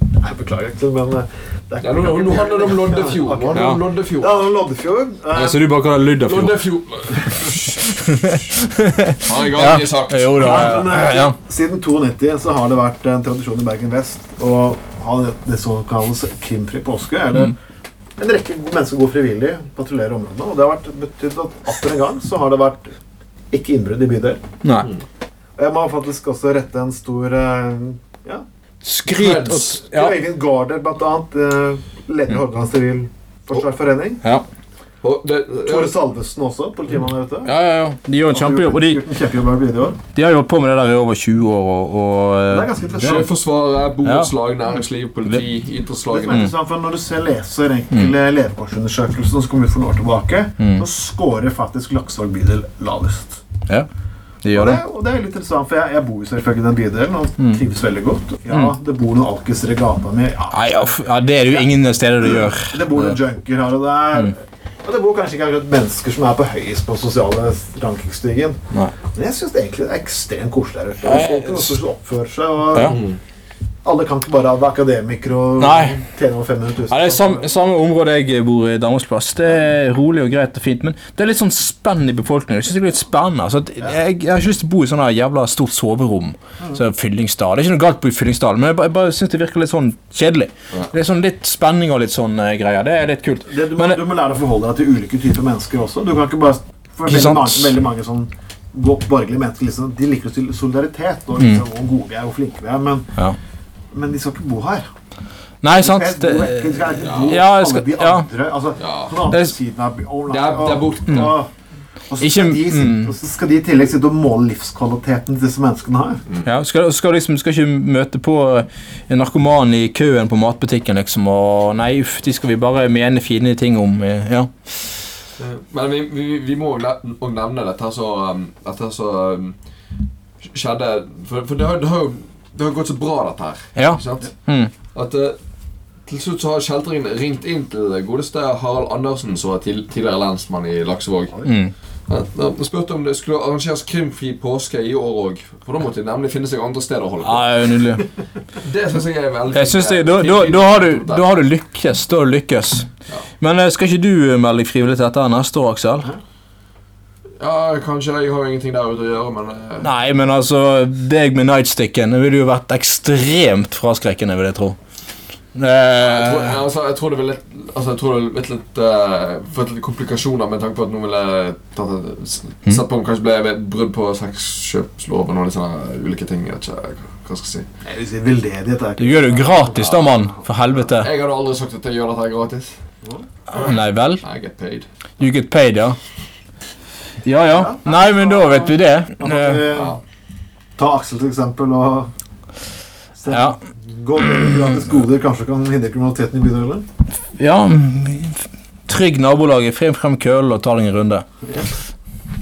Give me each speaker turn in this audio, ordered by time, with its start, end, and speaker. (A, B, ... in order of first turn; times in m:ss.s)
0:00.2-0:05.7 A
0:01.8-0:04.4 B
0:03.5-0:03.8 C
0:05.3-0:06.6 C
0:06.2-0:08.0 B
0:08.0-0:11.4 C
0:09.2-0:10.9 B
0:10.4-0:17.6 A
0:18.2-0:22.9 A
0:23.5-0:24.4 A
0:24.6-0:24.9 C
0:25.6-0:28.4 A
0:28.8-0:30.2 C
0:29.1-0:29.8 B
0:29.5-0:34.2 A
0:35.0-0:35.9 B
0:35.6-0:37.6 A
0:37.4-0:39.0 C
0:38.3-0:40.0 A
0:40.1-0:43.3 C
0:42.5-0:43.3 A
0:43.0-0:46.5 B
0:44.0-0:44.3 C
0:46.1-0:53.4 A
0:54.4-0:54.8 C
0:54.5-1:01.7 A
1:00.5-1:03.2 C
1:02.2-1:13.0 A
1:11.0-1:11.8 C
1:12.7-1:13.0 C
1:12.8-1:13.2 B
1:13.8-1:17.5 A
1:15.6-1:16.0 C
1:16.9-1:34.0 C
1:33.5-1:43.1 A
1:37.0-1:37.7 C
1:41.4-1:41.6 C
1:43.9-1:44.8 A
1:45.6-1:48.3 C
1:45.8-1:51.5 A
1:47.0-1:47.4 B
1:48.8-1:49.2 B
1:49.3-1:49.5 C
1:50.3-1:51.4 B
1:52.1-1:56.2 A
1:52.2-1:53.1 C
1:56.4-2:04.5 C
2:05.4-2:09.6 B
2:10.4-2:14.3 B
2:13.8-2:14.7 C
2:14.9-2:15.4 B
2:16.0-2:21.5 B
2:21.4-2:21.7 C
2:22.1-2:27.5 B
2:27.2-2:28.1 C
2:28.6-2:31.3 B
2:29.5-2:32.9 C
2:33.4-2:36.1 C
2:37.4-2:39.9 B
2:39.8-2:44.8 C
2:45.5-2:46.6 C
2:46.0-2:57.6 B
2:57.8-3:00.4 A
2:59.0-3:01.1 C
2:59.7-3:00.1 B
3:00.9-3:02.7 B
3:03.5-3:04.2 C
3:04.2-3:04.8 B
3:05.2-3:06.0 C
3:07.2-3:09.6 C
3:07.5-3:10.0 A
3:09.7-3:10.0 B
3:10.8-3:12.1 A
3:13.1-3:16.8 A
3:13.3-3:13.6 C
3:17.4-3:21.2 C
3:21.4-3:21.7 A